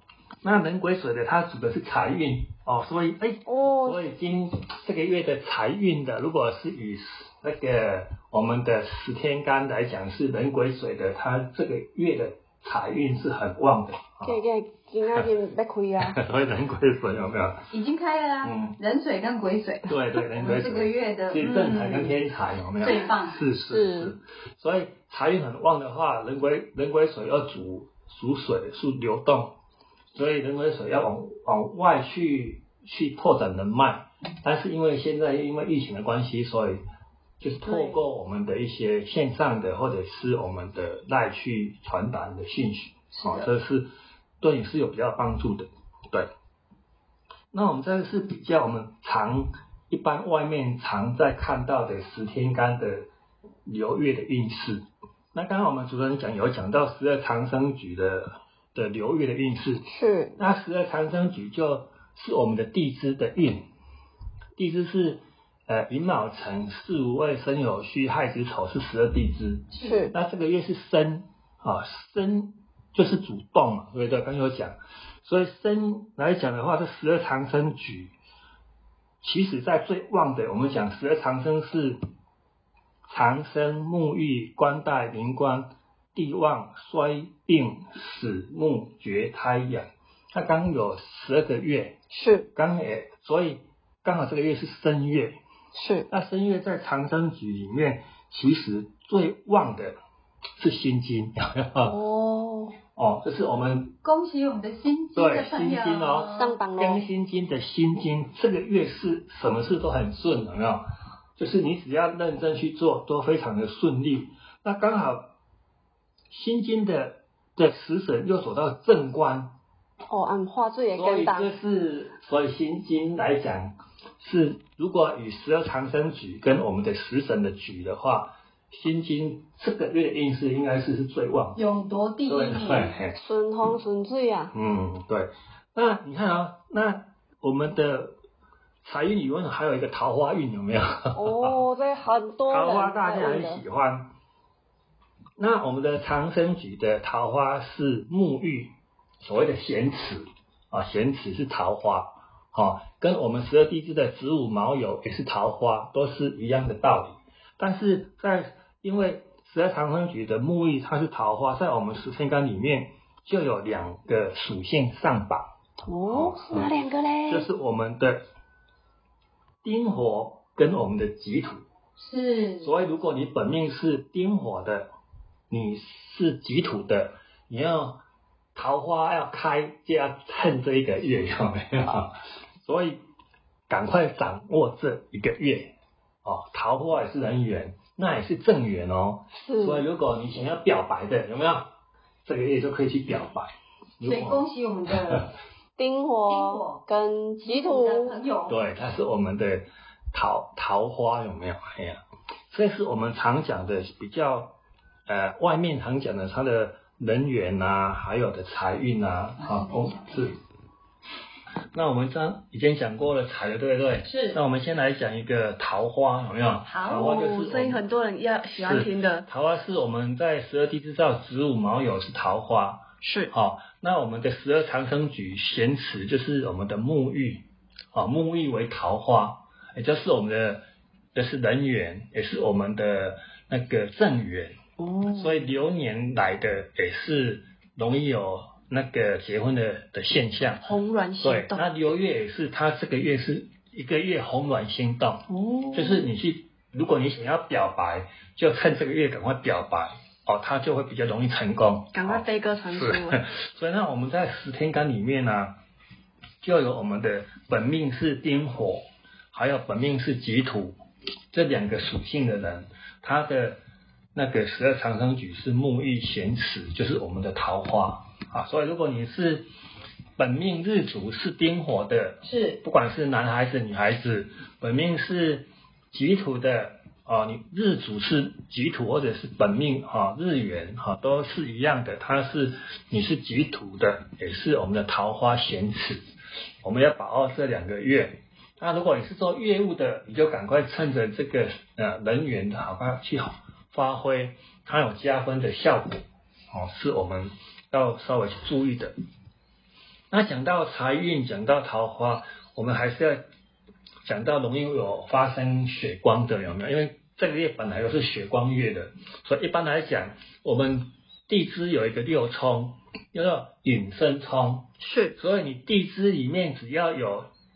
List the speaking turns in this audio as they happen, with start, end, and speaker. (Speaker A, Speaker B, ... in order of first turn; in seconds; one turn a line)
Speaker A: 0.4-14.4
Speaker B: 3.5-4.0
Speaker B: 14.2-16.2
Speaker A: 16.0-17.7
Speaker C: 17.7-22.2
Speaker A: 18.4-18.8
Speaker A: 19.9-29.6
Speaker C: 22.8-23.4
Speaker B: 23.6-24.1
Speaker A: 30.1-36.8
Speaker A: 37.4-43.9
Speaker B: 37.6-38.0
Speaker A: 44.4-46.3
Speaker A: 47.5-53.0
Speaker A: 53.7-59.8
Speaker B: 59.9-60.4
Speaker A: 60.4-63.7
Speaker A: 64.6-78.2
Speaker B: 69.8-70.1
Speaker A: 79.2-82.0
Speaker A: 83.1-92.0
Speaker B: 92.1-92.5
Speaker A: 92.5-95.4
Speaker B: 95.8-96.1
Speaker A: 96.1-100.0
Speaker A: 100.6-102.0
Speaker B: 101.8-102.8
Speaker A: 103.0-104.0
Speaker C: 104.0-106.6
Speaker A: 105.2-110.8
Speaker B: 106.3-107.1
Speaker A: 111.4-115.3
Speaker A: 116.3-119.6
Speaker B: 120.1-121.5
Speaker A: 120.9-131.6
Speaker C: 131.6-133.0
Speaker A: 132.3-133.2
Speaker B: 133.2-134.5
Speaker A: 134.5-138.2
Speaker A: 138.8-141.6
Speaker B: 141.1-143.6
Speaker A: 142.5-144.1
Speaker A: 145.4-165.5
Speaker B: 165.8-167.5
Speaker A: 166.1-168.2
Speaker A: 169.6-171.6
Speaker C: 172.0-172.8
Speaker A: 172.6-174.9
Speaker A: 175.5-178.0
Speaker A: 178.6-183.0
Speaker A: 183.7-191.7
Speaker B: 189.3-189.9
Speaker A: 192.3-194.5
Speaker C: 194.0-195.3
Speaker B: 195.8-198.2
Speaker C: 196.2-196.8
Speaker C: 197.4-198.6
Speaker A: 198.5-210.4
Speaker C: 209.4-210.4
Speaker A: 211.7-217.8
Speaker C: 214.1-214.4
Speaker C: 216.7-217.1
Speaker B: 216.9-219.3
Speaker A: 218.6-255.6
Speaker B: 223.0-223.3
Speaker B: 234.8-235.4
Speaker B: 240.6-241.7
Speaker B: 245.3-246.1
Speaker B: 251.9-253.2
Speaker A: 256.4-260.8
Speaker A: 261.3-263.6
Speaker A: 264.1-269.5
Speaker A: 270.2-286.0
Speaker C: 272.2-272.6
Speaker A: 286.6-298.9
Speaker A: 300.1-303.2
Speaker A: 304.1-317.3
Speaker B: 314.8-315.2